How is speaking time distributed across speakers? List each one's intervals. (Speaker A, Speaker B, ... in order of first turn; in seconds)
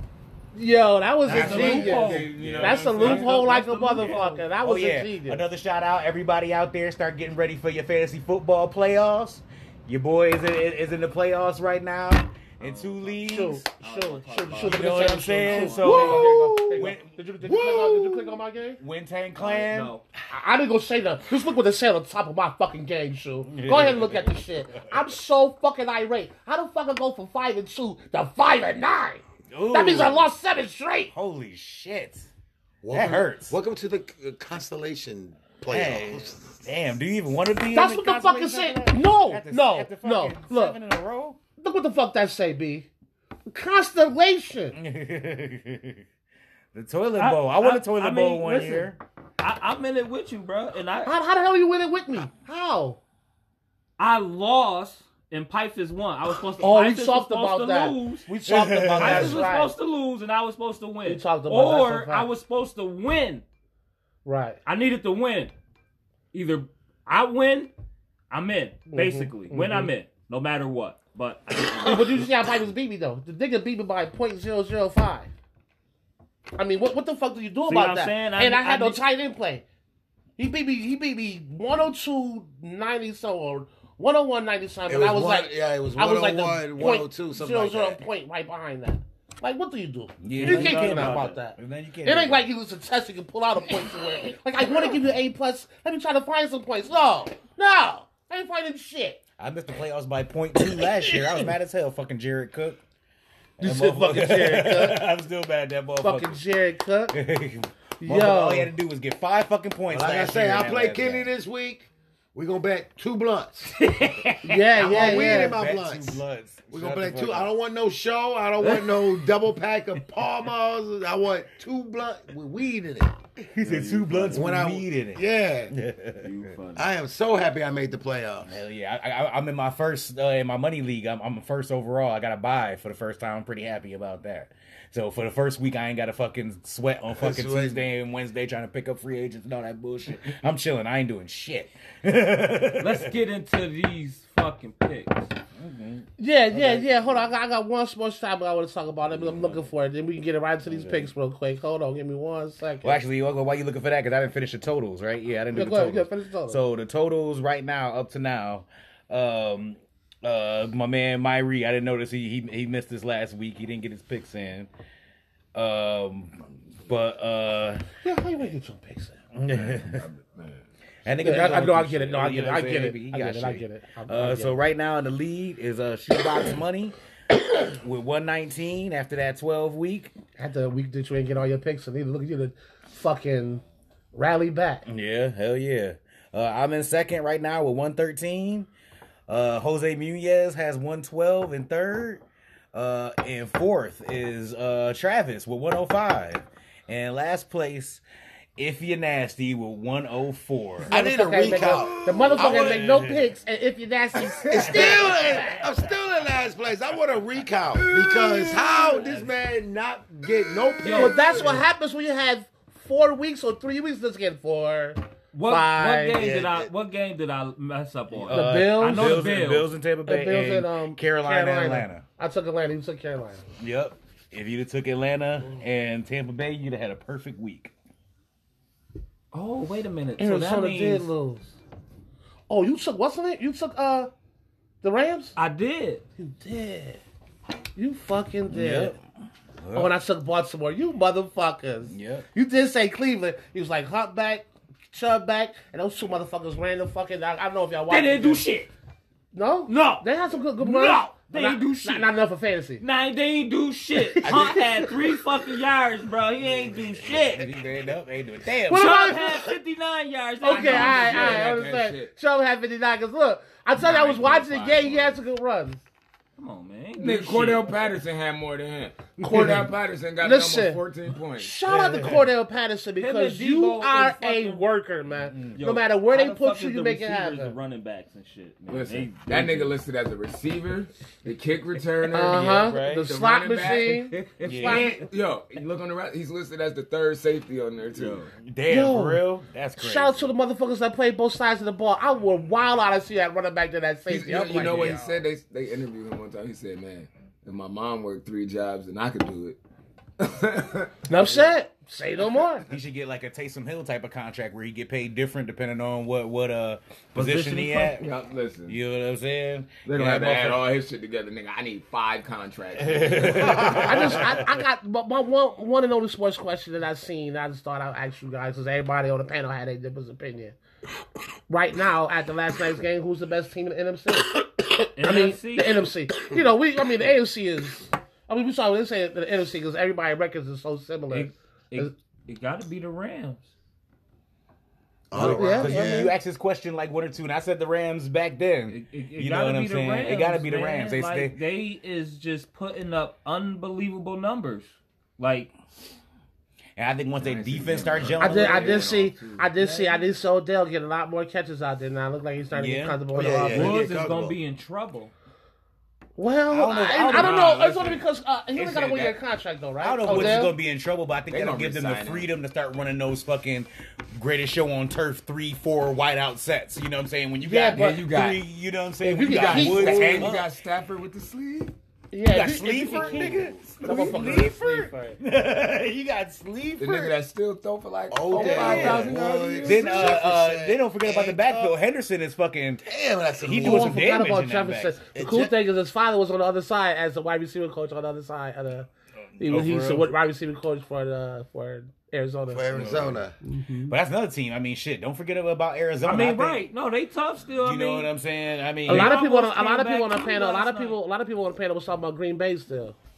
Speaker A: 0.5-5.4, 13.2-18.8, 20.3-31.1, 37.7-40.8, 41.6-42.9, 43.5-44.8, 51.0-53.0, 56.6-59.7, 61.0-62.3, 64.2-64.6, 68.9-69.9, 71.8-75.3, 76.6-79.6, 80.4-99.2, 103.6-105.0, 106.0-107.2, 108.0-108.7, 114.4-115.6, 146.2-153.0, 155.5-156.6, 168.0-169.2, 171.2-174.6, 180.4-183.6, 184.1-184.8, 200.8-205.6, 210.9-216.2, 218.3-219.3, 220.1-223.4, 230.2-231.5, 232.5-234.1, 234.8-235.3, 236.2-237.0, 237.8-238.9, 239.7-248.4, 249.3-252.8, 258.7-259.4, 260.4-265.8, 269.2-269.7, 270.2-270.8, 271.4-277.6, 282.1-284.9, 288.7-289.2, 289.8-295.0, 301.1-302.6, 313.7-320.6, 321.5-331.9, 335.2-336.1, 348.2-353.8, 356.2-360.6, 367.4-368.1, 369.0-370.4, 372.1-375.2, 383.6-392.7, 393.4-394.0, 398.9-403.0
Speaker B: 1.2-4.5, 12.6-16.3, 19.4-20.0, 47.2-51.1, 54.0-58.3, 59.0-63.4, 64.7-65.5, 66.3-67.7, 68.3-72.3, 77.7-79.0, 90.4-91.4, 113.8-114.7, 118.6-119.2, 123.6-124.5, 126.2-126.8, 142.8-145.3, 210.8-211.5, 215.3-219.7, 229.3-231.1, 235.4-236.0, 247.9-248.7, 249.7-250.1, 250.6-252.1, 252.8-257.5, 258.7-261.5, 266.4-267.7, 273.0-274.6, 275.6-279.7, 284.1-284.5, 287.9-288.2, 307.1-308.0, 325.0-325.9, 331.1-333.5, 338.7-345.5, 349.6-350.1, 353.5-355.1, 396.1-398.1, 398.9-401.0
Speaker C: 1.3-3.4, 15.9-16.7, 169.5-170.7, 260.4-262.1, 263.8-265.2, 267.0-271.5, 278.7-288.3, 294.1-299.6, 300.2-301.4, 308.0-308.8, 309.9-314.4, 347.2-349.5, 356.9-358.0, 358.6-359.2, 360.1-360.4, 361.3-362.3, 367.7-368.4, 369.2-371.8, 376.8-380.2, 392.7-393.2
Speaker D: 4.6-13.7, 14.6-18.1, 18.8-19.9, 23.5-25.1, 29.5-30.3, 31.1-32.3, 32.9-33.6, 35.7-41.4, 44.7-46.0, 46.7-49.0, 58.5-59.5, 90.2-92.5, 99.4-102.8, 103.6-106.4, 107.1-111.3, 114.8-117.5, 123.5-126.3, 128.5-143.1, 145.6-147.2, 150.7-151.1, 152.8-164.7, 165.6-167.8, 169.3-170.0, 171.1-176.9, 177.5-180.1, 184.9-188.7, 189.3-198.0, 198.6-200.9, 202.4-203.3, 218.2-222.0, 223.6-227.7, 238.5-239.0, 239.6-239.9, 241.9-242.3, 257.0-259.2, 271.6-272.2, 275.1-275.6, 282.5-283.1, 284.4-284.9, 288.4-290.3, 294.6-295.1, 302.7-308.1, 308.7-310.6, 312.8-314.4, 335.1-341.4, 346.8-348.9, 352.5-353.0, 356.5-357.6, 359.8-370.5, 372.3-377.2, 378.3-382.9, 383.4-384.9, 389.4-390.1, 393.9-396.7, 397.6-399.1
Speaker E: 32.8-36.6, 84.9-88.0, 109.9-113.8, 114.8-123.2, 124.3-125.8, 126.7-128.5, 137.2-137.8, 200.9-203.0, 204.4-211.6, 216.2-216.7, 335.1-336.1, 353.1-354.3, 372.9-373.4, 378.1-381.8, 382.9-384.0, 385.1-385.6, 392.5-393.4